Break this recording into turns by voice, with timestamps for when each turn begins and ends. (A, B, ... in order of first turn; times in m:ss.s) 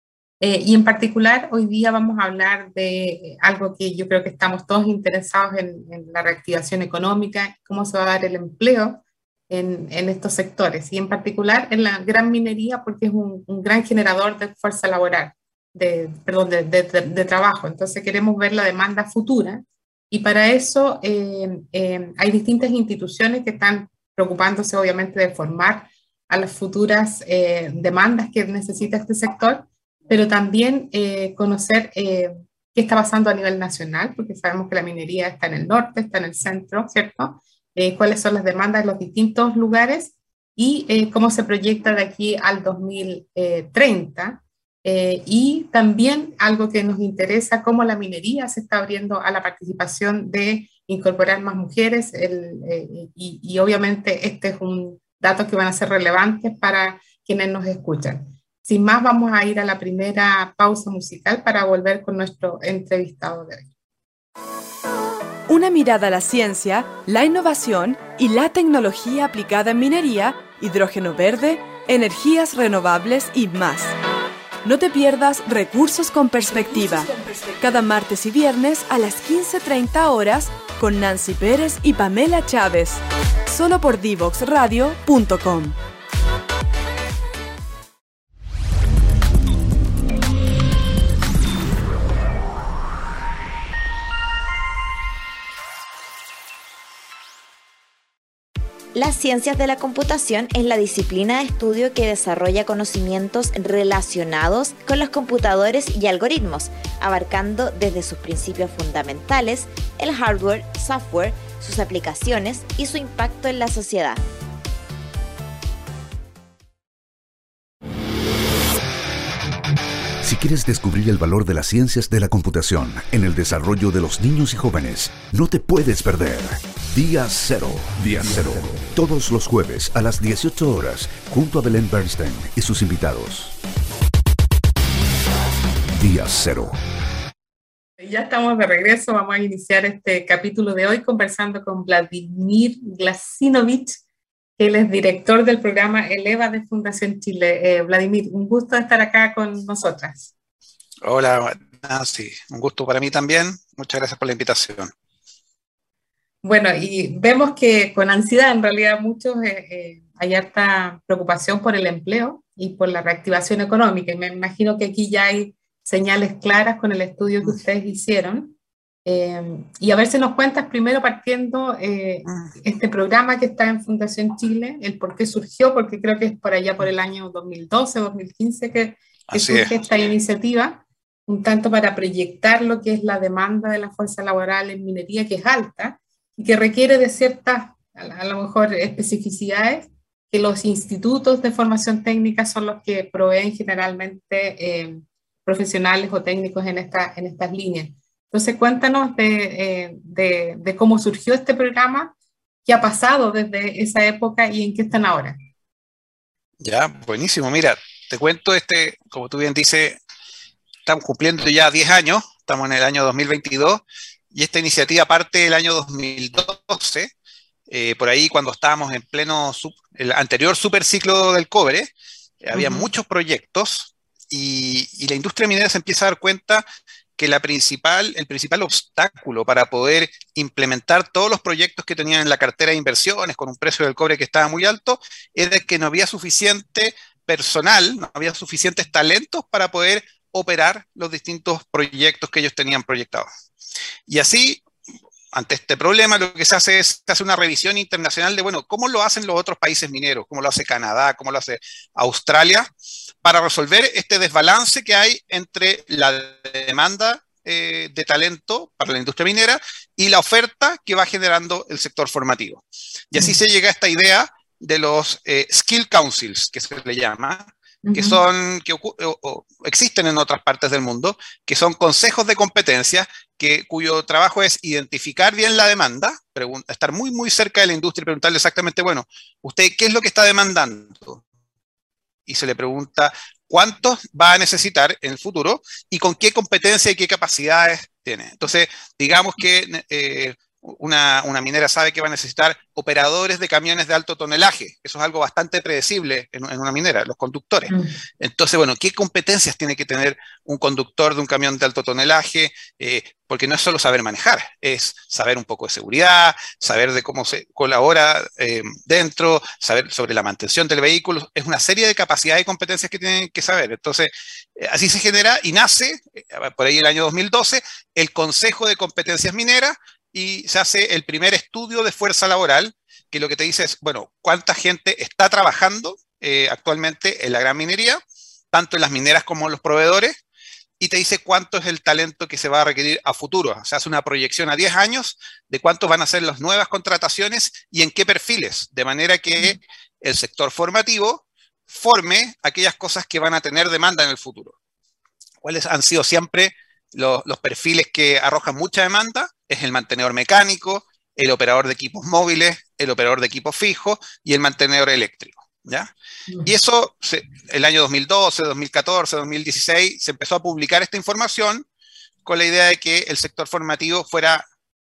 0:00.4-1:03.7 A
1:05.5-1:13.9 B
1:14.6-1:25.8 B
1:39.0-1:54.2 C
2:00.2-2:13.6 D
2:15.9-2:16.8 D
2:18.0-2:24.0 A
2:24.6-2:30.3 A
2:31.0-2:34.9 E
2:36.4-3:22.1 A
2:59.3-2:59.7 E
3:22.7-3:25.4 A
3:26.6-3:30.0 E
3:30.9-3:37.1 E
3:37.7-3:41.9 E
3:42.4-3:46.6 E
3:42.6-3:42.9 A
3:47.2-4:03.3 E
4:04.1-4:04.6 E
4:05.3-4:12.7 E
4:13.2-4:41.2 E
4:27.8-4:28.2 A
4:42.3-5:28.0 E
5:28.5-5:30.2 E
5:30.8-5:44.6 E
5:45.4-5:55.9 E
5:56.4-6:01.6 E
6:02.2-6:04.4 E